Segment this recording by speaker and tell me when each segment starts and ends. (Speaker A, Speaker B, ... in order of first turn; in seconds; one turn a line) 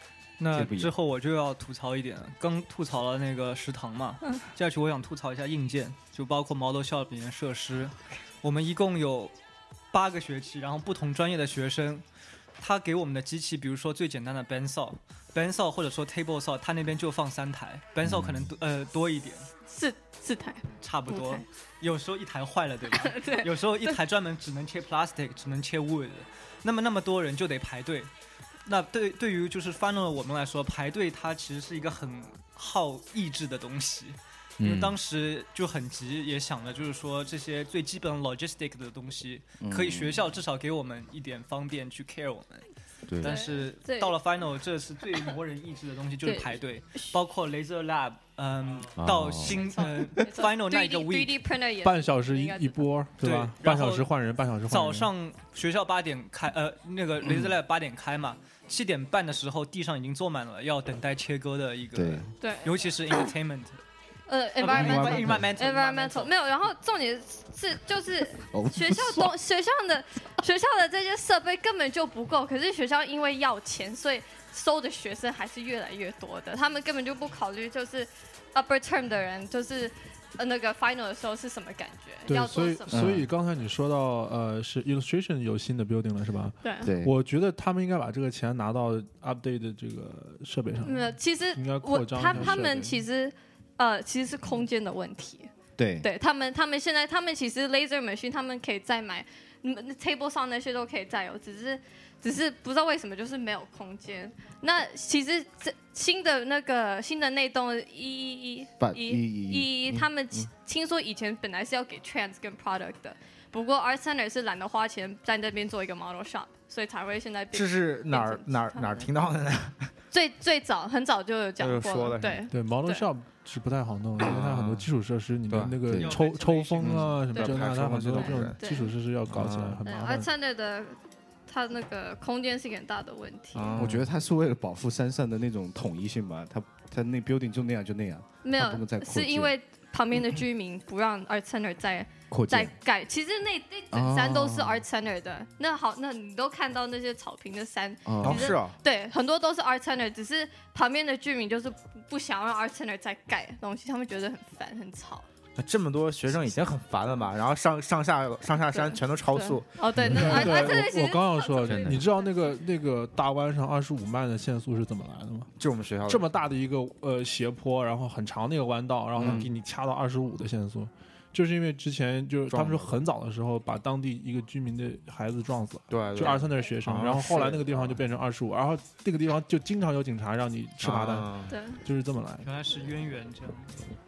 Speaker A: 0.4-9.3
Speaker B: 0.5-0.9
Speaker A: 9.9-12.0
Speaker A: 12.6-19.4
Speaker C: 18.1-18.4
Speaker D: 19.7-21.4
Speaker A: 20.8-28.1
Speaker D: 22.9-24.0
Speaker A: 28.6-42.7
Speaker C: 34.6-35.0
Speaker B: 39.6-40.2
Speaker C: 43.1-43.3
Speaker A: 43.2-51.4
Speaker D: 43.2-44.2
Speaker D: 46.2-47.1
Speaker C: 49.0-49.6
Speaker D: 49.4-52.9
Speaker E: 51.8-55.1
Speaker A: 53.2-54.1
Speaker A: 54.7-63.8
Speaker B: 61.9-62.3
Speaker D: 62.4-63.3
Speaker D: 64.3-83.1
Speaker A: 64.6-66.3
Speaker B: 64.7-65.5
Speaker B: 68.5-69.3
Speaker E: 82.3-93.0
Speaker B: 82.9-83.3
Speaker D: 86.6-86.9
Speaker B: 86.8-87.1
Speaker D: 90.8-119.0
Speaker B: 95.8-96.1
Speaker B: 108.8-110.5
Speaker F: 117.5-119.9
Speaker D: 120.1-123.1
Speaker F: 121.6-122.5
Speaker E: 122.5-130.3
Speaker F: 124.2-124.9
Speaker F: 125.5-125.8
Speaker A: 125.9-126.9
Speaker F: 126.8-128.6
Speaker D: 127.3-127.6
Speaker D: 128.1-128.9
Speaker F: 129.3-129.8
Speaker D: 129.8-133.8
Speaker F: 133.5-134.1
Speaker B: 133.8-139.5
Speaker D: 138.4-155.2
Speaker B: 142.3-142.7
Speaker B: 143.9-144.8
Speaker B: 148.0-148.6
Speaker F: 148.2-148.8
Speaker F: 155.6-160.4
Speaker D: 158.7-162.6
Speaker E: 160.0-165.5
Speaker C: 161.6-162.1
Speaker F: 165.6-166.3
Speaker E: 166.0-181.3
Speaker F: 169.1-169.5
Speaker B: 169.2-169.4
Speaker F: 172.5-173.0
Speaker F: 175.9-178.0
Speaker F: 180.8-181.5
Speaker D: 181.5-181.8
Speaker E: 181.8-182.5
Speaker A: 182.4-183.7